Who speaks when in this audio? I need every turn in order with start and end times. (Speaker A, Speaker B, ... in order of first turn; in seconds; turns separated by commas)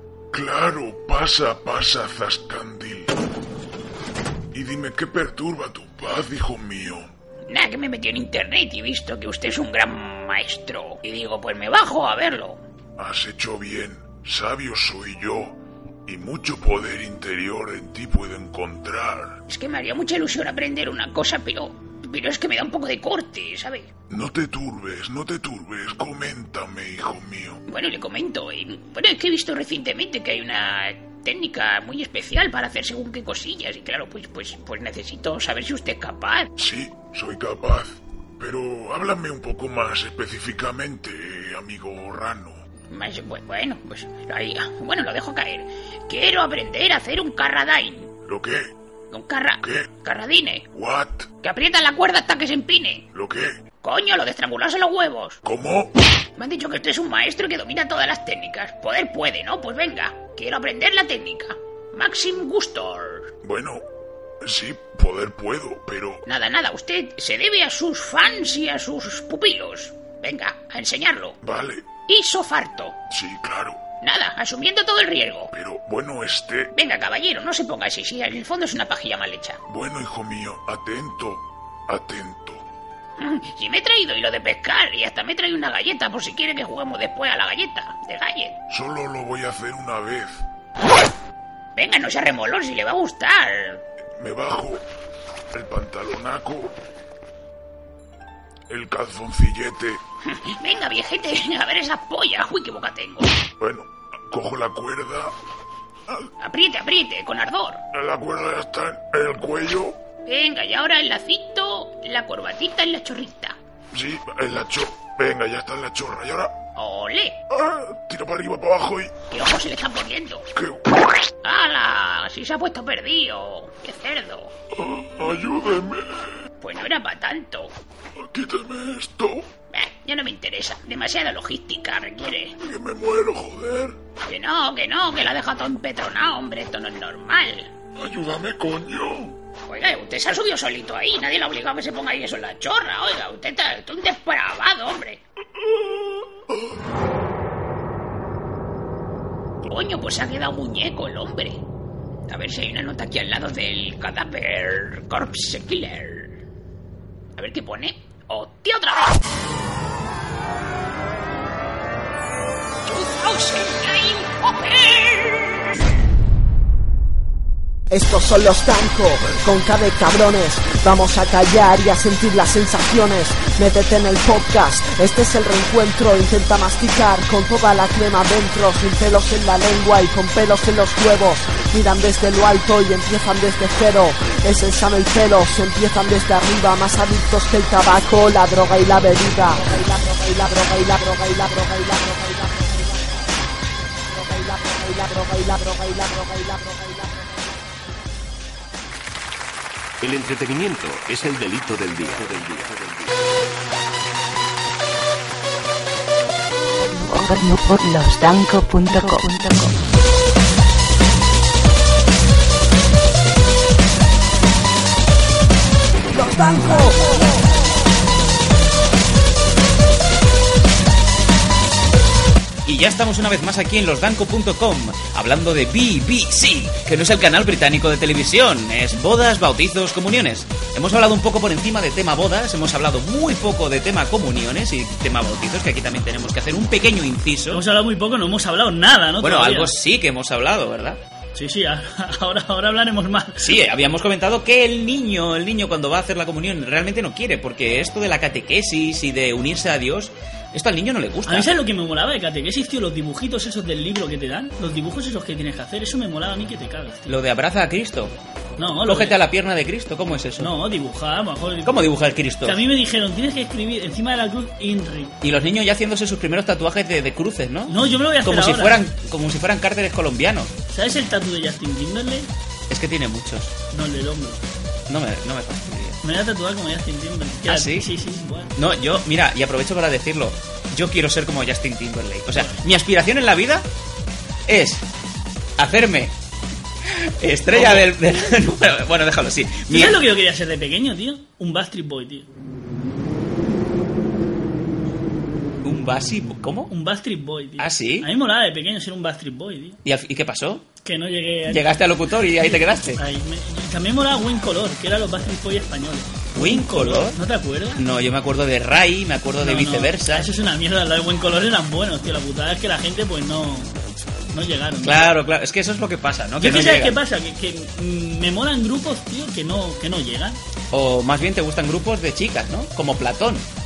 Speaker A: 0.3-3.1, Speaker A: 4.5-7.1, Speaker B: 7.5-12.6, Speaker A: 13.0-19.4, Speaker B: 19.5-23.9, Speaker A: 24.1-27.6, Speaker B: 27.7-36.5, Speaker A: 36.6-42.6, Speaker B: 42.9-48.1, Speaker A: 48.2-48.6, Speaker B: 49.1-50.7, Speaker A: 49.6-49.9, Speaker A: 50.7-51.3, Speaker B: 51.4-53.0, Speaker A: 53.1-53.5, Speaker B: 53.8-55.4, Speaker A: 55.4-55.9, Speaker B: 56.4-63.3, Speaker A: 63.4-63.8, Speaker A: 64.4-66.2, Speaker B: 66.3-71.4, Speaker A: 71.4-71.9, Speaker B: 72.0-73.0, Speaker A: 73.1-73.8, Speaker B: 74.0-75.5, Speaker A: 75.5-76.7, Speaker B: 76.7-79.6, Speaker A: 79.7-82.6, Speaker B: 83.2-88.5, Speaker A: 88.7-90.4, Speaker B: 91.8-93.8, Speaker A: 94.2-94.8, Speaker A: 95.5-96.7, Speaker A: 98.7-100.0, Speaker B: 100.2-103.3, Speaker A: 103.6-105.3, Speaker B: 106.4-107.8, Speaker A: 107.9-110.0, Speaker B: 110.3-113.5, Speaker A: 113.9-116.5, Speaker B: 116.8-117.3, Speaker A: 117.5-119.1, Speaker B: 119.3-120.4, Speaker A: 120.5-121.0, Speaker B: 121.4-124.5, Speaker A: 124.7-126.3, Speaker B: 126.6-127.7, Speaker A: 128.2-129.5, Speaker B: 129.7-132.5, Speaker A: 132.6-133.9, Speaker B: 134.2-137.7, Speaker A: 138.0-139.4, Speaker B: 139.7-145.2, Speaker B: 149.6-151.6, Speaker B: 152.3-156.4, Speaker B: 157.3-159.2, Speaker B: 162.8-165.6, Speaker C: 167.9-192.8, Speaker C: 194.1-197.2, Speaker D: 200.0-203.1, Speaker E: 206.8-209.7, Speaker C: 216.2-217.2, Speaker F: 222.6-237.6, Speaker G: 237.5-239.8, Speaker F: 239.2-241.0, Speaker G: 241.3-243.5, Speaker F: 243.4-251.6, Speaker G: 251.2-257.1, Speaker F: 257.1-258.1, Speaker G: 258.6-259.2, Speaker F: 258.8-260.5, Speaker G: 260.4-265.1, Speaker F: 261.6-262.6, Speaker F: 265.2-270.5, Speaker G: 267.7-268.9, Speaker G: 270.7-272.3, Speaker F: 272.7-273.5, Speaker G: 273.7-274.4, Speaker F: 274.9-276.0, Speaker G: 276.0-278.5, Speaker F: 277.4-277.9, Speaker F: 278.5-283.6, Speaker G: 282.3-282.6, Speaker F: 284.5-284.9, Speaker F: 285.6-286.1, Speaker F: 286.9-290.0, Speaker G: 287.5-287.9, Speaker G: 289.7-292.3, Speaker F: 295.6-296.7, Speaker G: 296.7-299.8, Speaker F: 297.6-298.1, Speaker F: 299.8-300.7, Speaker G: 300.8-307.8, Speaker F: 301.5-303.0, Speaker F: 306.3-307.2, Speaker F: 307.7-310.3, Speaker G: 309.4-313.7, Speaker G: 314.3-315.1, Speaker F: 314.8-317.0, Speaker G: 316.4-320.4, Speaker F: 320.7-323.4